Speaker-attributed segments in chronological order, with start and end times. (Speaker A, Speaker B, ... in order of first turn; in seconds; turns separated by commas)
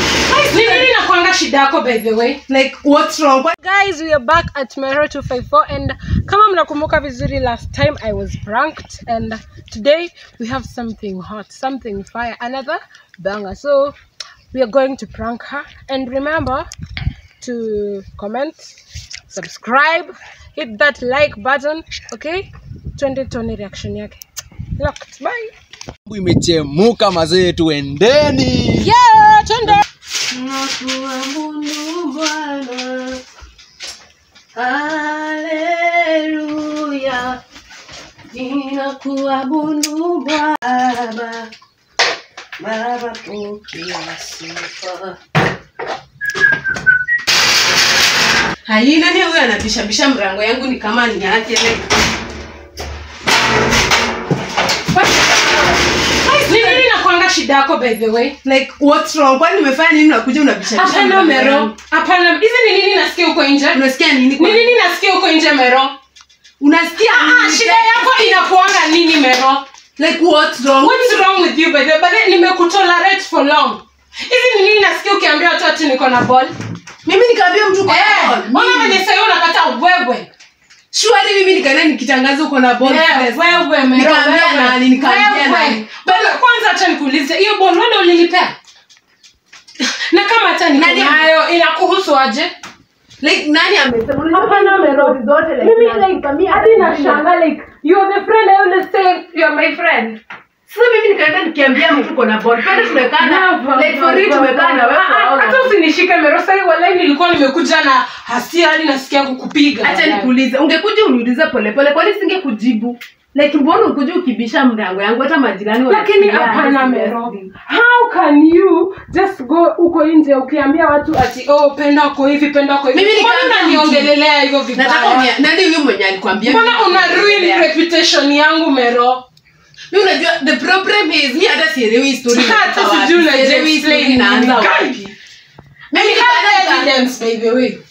Speaker A: 0.2-2.4, Speaker B: 0.3-0.9, Speaker B: 2.5-3.5, Speaker A: 3.6-13.9, Speaker A: 14.5-16.6, Speaker A: 17.4-18.7, Speaker A: 19.3-24.2, Speaker A: 24.8-25.5, Speaker C: 26.1-28.9, Speaker A: 28.8-29.8, Speaker B: 30.2-33.2, Speaker B: 34.5-37.4, Speaker B: 38.3-41.5, Speaker B: 42.6-45.1, Speaker B: 48.6-51.9, Speaker A: 54.9-55.3, Speaker A: 56.2-58.4, Speaker B: 56.3-56.8, Speaker B: 58.4-61.7, Speaker A: 60.7-63.8, Speaker B: 63.7-64.7, Speaker A: 64.4-65.9, Speaker B: 66.6-68.5, Speaker A: 67.0-69.6, Speaker B: 70.0-71.2, Speaker A: 70.8-76.5, Speaker B: 77.0-79.0, Speaker A: 77.8-80.3, Speaker B: 80.9-86.4, Speaker A: 82.8-88.5, Speaker A: 89.8-92.5, Speaker B: 90.7-91.3, Speaker B: 93.2-97.2, Speaker A: 94.3-100.2, Speaker B: 100.7-105.7, Speaker A: 102.6-110.3, Speaker B: 109.8-117.5, Speaker A: 115.9-125.3, Speaker B: 122.9-124.1, Speaker B: 124.7-127.7, Speaker A: 126.4-129.2, Speaker B: 129.9-135.1, Speaker A: 132.3-135.0, Speaker B: 135.9-136.9, Speaker A: 135.9-137.8